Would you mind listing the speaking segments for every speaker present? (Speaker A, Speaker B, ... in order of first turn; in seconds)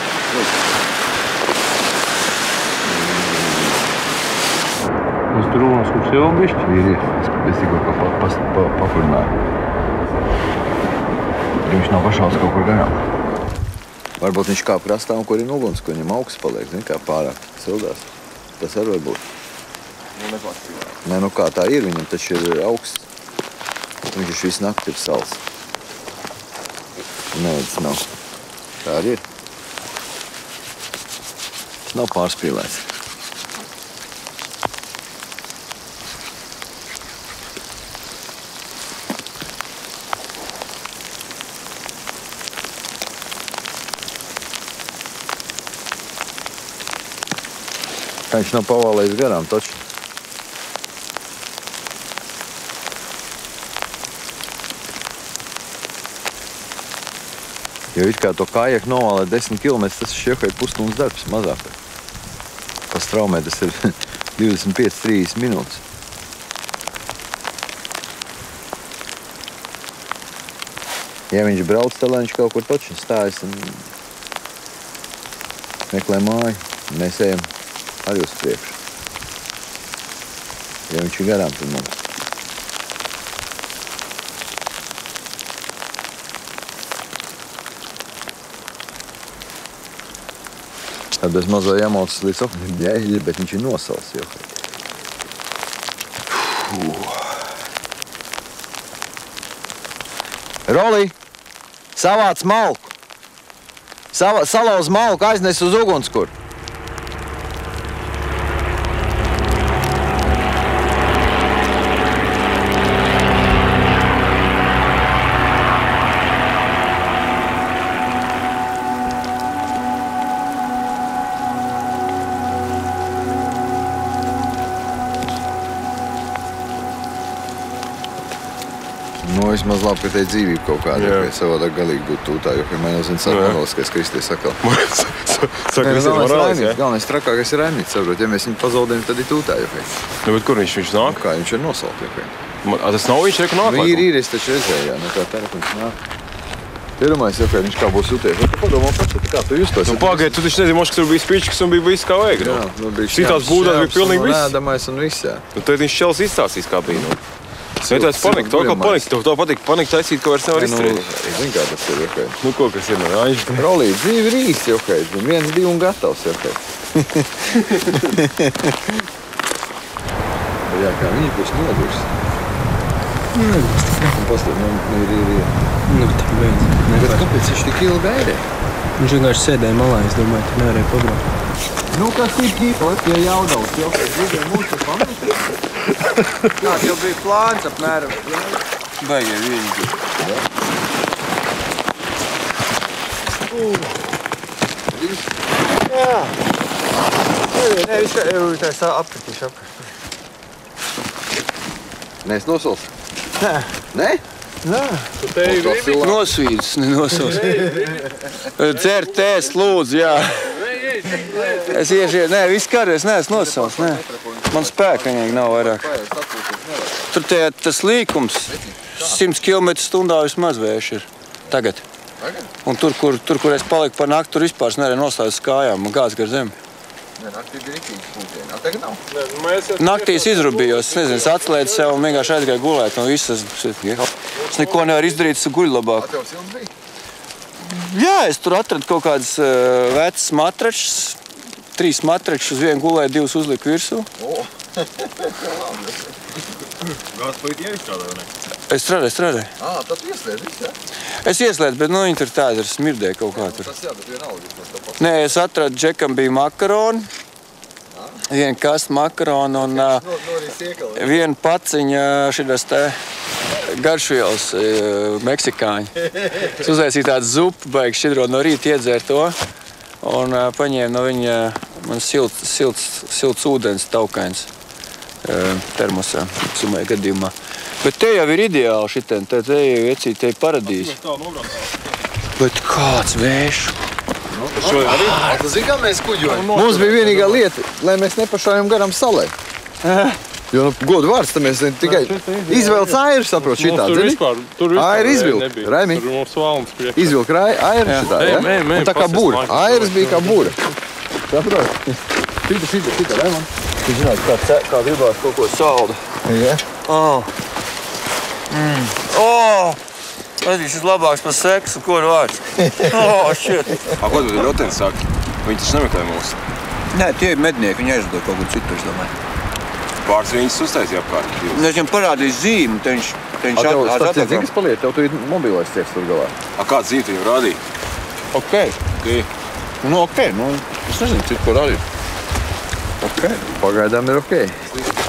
Speaker A: 2.9-3.7, 6.6-9.3, 11.7-13.1, 14.2-19.2, 21.0-23.1, 24.1-25.4, 27.3-28.1, 28.8-29.2, 31.9-32.8, 48.3-49.8, 58.0-61.8, 62.9-65.8, 71.3-73.9, 75.9-77.5, 78.0-78.8, 80.9-81.9, 91.2-94.5, 96.3-97.3, 100.7-101.1, 102.0-102.9, 104.1-106.3, 129.2-134.6, 135.8-139.9, 141.0-142.4, 143.6-146.0, 147.0-150.4, 152.3-155.5, 157.9-159.1, 160.5-162.4, 163.5-166.6, 170.7-172.1, 174.1-175.5, 176.9-178.4, 181.9-185.6, 188.2-188.6, 190.2-190.4, 194.9-195.3, 202.2-202.9, 203.9-204.2, 205.4-206.3, 207.3-208.0, 211.1-212.1, 213.3-217.1, 218.5-219.3, 222.2-222.5, 227.2-229.0, 236.0-236.7, 244.2-246.5, 249.6-250.8, 253.3-255.4, 257.9-258.2, 259.5-261.3, 284.3-289.3, 290.5-296.0, 297.0-300.6, 301.3-303.5, 306.3-306.6, 312.7-312.9, 323.6-326.4, 330.8-331.8, 333.0-334.8
Speaker B: 5.3-6.7, 205.2-206.1, 207.4-207.8, 208.8-209.4, 210.5-211.6, 229.1-232.1, 234.6-235.0, 291.8-297.2, 297.9-300.6
Speaker C: 20.2-20.9, 130.9-131.3, 133.3-133.6, 134.6-136.8, 140.2-141.2, 142.6-144.1, 149.8-154.5, 155.6-157.2, 157.8-161.1, 162.4-163.7, 247.1-248.3, 280.6-281.8, 284.6-285.3, 286.3-287.3, 314.0-316.4, 320.1-321.8, 326.6-327.6, 328.9-329.3
Speaker D: 173.4-174.1, 175.9-177.2, 179.0-181.2
Speaker E: 186.6-188.3, 189.0-190.0, 195.9-196.3, 197.5-199.7, 203.4-203.7, 204.6-205.1, 205.9-207.6, 208.6-210.6, 211.6-215.9, 217.1-221.8, 222.7-226.6, 229.8-236.1, 237.6-241.2, 241.8-244.1, 248.7-249.5, 251.2-253.7, 255.0-257.1, 258.3-260.1, 260.9-263.0, 263.7-269.4, 270.0-274.5, 275.2-281.0, 282.4-283.8, 289.8-290.2, 297.9-298.1, 303.8-306.1, 306.9-307.3, 308.5-309.8, 310.4-314.0, 316.9-319.1, 321.5-324.5, 328.3-328.8, 329.8-330.7